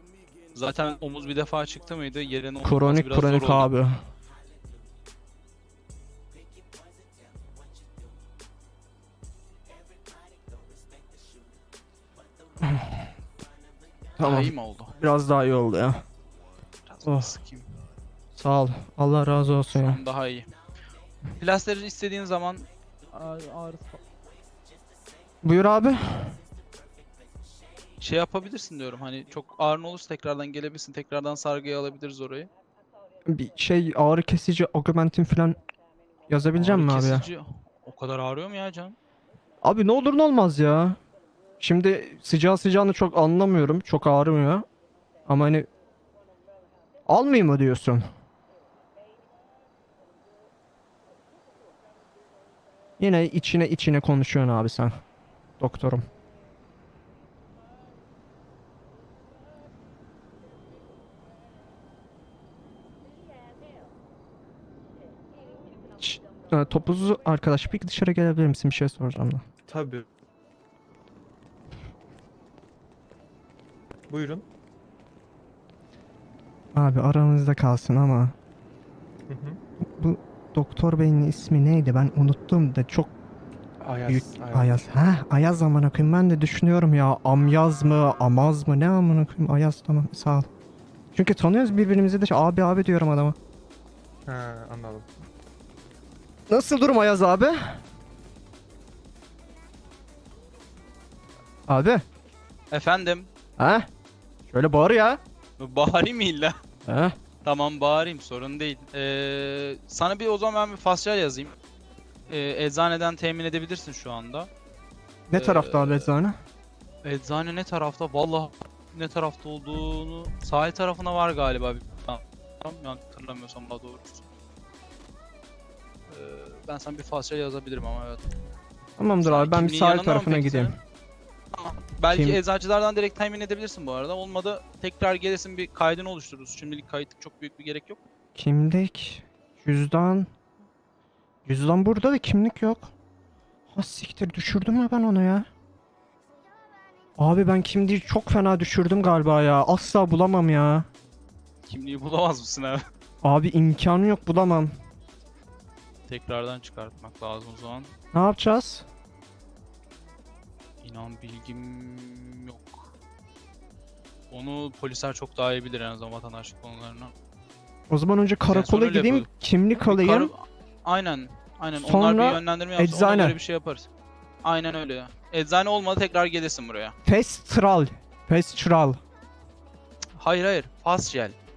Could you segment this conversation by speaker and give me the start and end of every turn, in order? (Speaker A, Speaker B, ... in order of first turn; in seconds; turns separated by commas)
Speaker A: 0.5-3.7, Speaker B: 2.6-4.0, Speaker B: 12.6-13.1, Speaker B: 14.2-16.0, Speaker A: 14.2-14.9, Speaker A: 16.9-17.6, Speaker B: 17.0-17.4, Speaker B: 18.4-20.0, Speaker A: 19.7-20.5, Speaker A: 21.4-24.0, Speaker B: 25.4-26.4, Speaker A: 28.0-32.5, Speaker B: 33.3-35.5, Speaker B: 36.3-37.3, Speaker A: 36.6-39.0, Speaker B: 39.6-41.0, Speaker B: 41.6-44.6, Speaker B: 45.3-45.7, Speaker B: 47.1-48.0, Speaker B: 53.0-55.0, Speaker B: 55.6-56.0, Speaker B: 66.0-69.4, Speaker C: 69.7-70.1, Speaker C: 74.1-74.5, Speaker B: 76.7-78.3, Speaker C: 79.3-79.6, Speaker B: 79.8-83.1, Speaker C: 83.8-85.0, Speaker B: 84.1-90.5, Speaker B: 91.1-93.3, Speaker C: 94.3-95.1, Speaker B: 96.5-97.8, Speaker B: 101.7-102.0, Speaker A: 102.7-103.3, Speaker B: 103.6-103.9, Speaker B: 104.5-105.2, Speaker A: 105.6-106.5, Speaker B: 106.9-107.1, Speaker A: 107.4-111.5, Speaker A: 112.3-114.5, Speaker B: 115.3-116.3, Speaker A: 115.3-116.1, Speaker A: 117.0-124.2, Speaker A: 126.1-128.3, Speaker B: 129.0-130.8, Speaker A: 129.2-130.7, Speaker A: 131.5-138.0, Speaker B: 132.1-132.4, Speaker B: 138.3-140.3, Speaker B: 141.4-142.9, Speaker B: 143.7-145.5, Speaker B: 147.2-150.9, Speaker A: 151.7-152.8, Speaker B: 153.2-154.7, Speaker A: 156.1-157.9, Speaker B: 158.1-158.8, Speaker A: 160.8-162.9, Speaker A: 164.3-167.1, Speaker B: 167.9-170.3, Speaker A: 168.5-169.3, Speaker A: 169.9-173.9, Speaker B: 171.8-173.4, Speaker A: 174.4-176.9, Speaker B: 177.1-179.0, Speaker A: 180.2-181.3